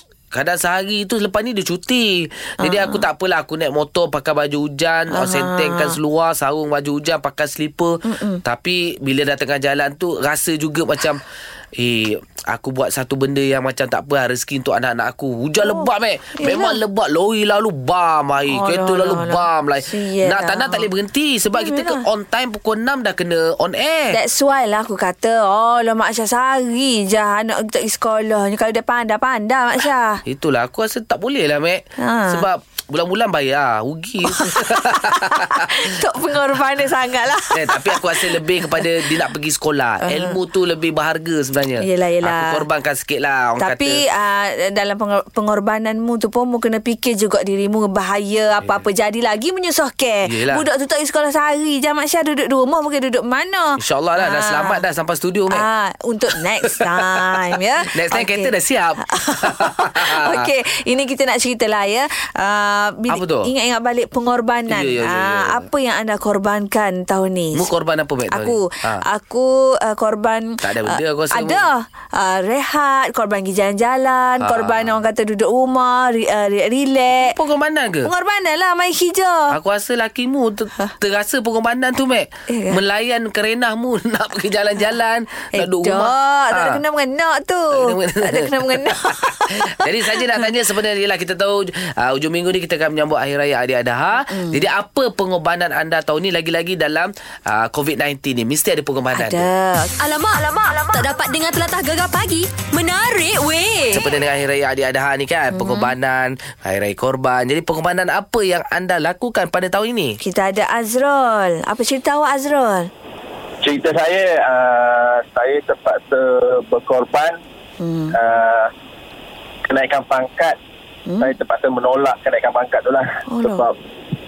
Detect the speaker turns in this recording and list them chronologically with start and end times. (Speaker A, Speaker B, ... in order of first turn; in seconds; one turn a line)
Speaker A: 0.3-11.2
Speaker B: 2.6-3.0
Speaker B: 5.1-6.0
Speaker B: 8.1-8.4
Speaker A: 11.8-24.2
Speaker B: 15.6-16.8
Speaker B: 18.5-20.9
Speaker B: 21.5-22.0
Speaker B: 24.1-30.2
Speaker A: 30.2-35.6
Speaker B: 32.0-32.5
Speaker B: 34.3-39.0
Speaker A: 37.5-44.0
Speaker B: 40.0-40.4
Speaker B: 41.8-42.6
Speaker B: 43.6-54.8
Speaker A: 50.2-50.6
Speaker A: 53.8-55.6
Speaker B: 55.5-58.5
Speaker A: 56.8-57.4
Speaker A: 57.9-60.4
Speaker B: 59.0-67.7
Speaker A: 63.1-63.5
Speaker A: 64.7-65.7
Speaker A: 67.5-69.0
Speaker B: 68.3-77.3
Speaker A: 70.6-71.7
Speaker A: 74.4-75.0
Speaker A: 77.2-78.1
Speaker B: 78.0-79.5
Speaker A: 79.5-86.8
Speaker B: 82.5-82.8
Speaker B: 85.5-90.5
Speaker A: 87.7-99.5
Speaker B: 94.2-94.6
Speaker B: 99.1-99.9
Speaker C: 100.0-104.0
Speaker A: 103.9-110.2
Speaker B: 105.5-105.9
Speaker B: 110.2-112.9
Speaker D: 113.6-117.3
Speaker B: 117.8-118.2
Speaker D: 118.1-118.7
Speaker D: 119.7-120.5
Speaker B: 121.1-121.3
Speaker D: 121.2-123.7
Speaker B: 123.3-123.7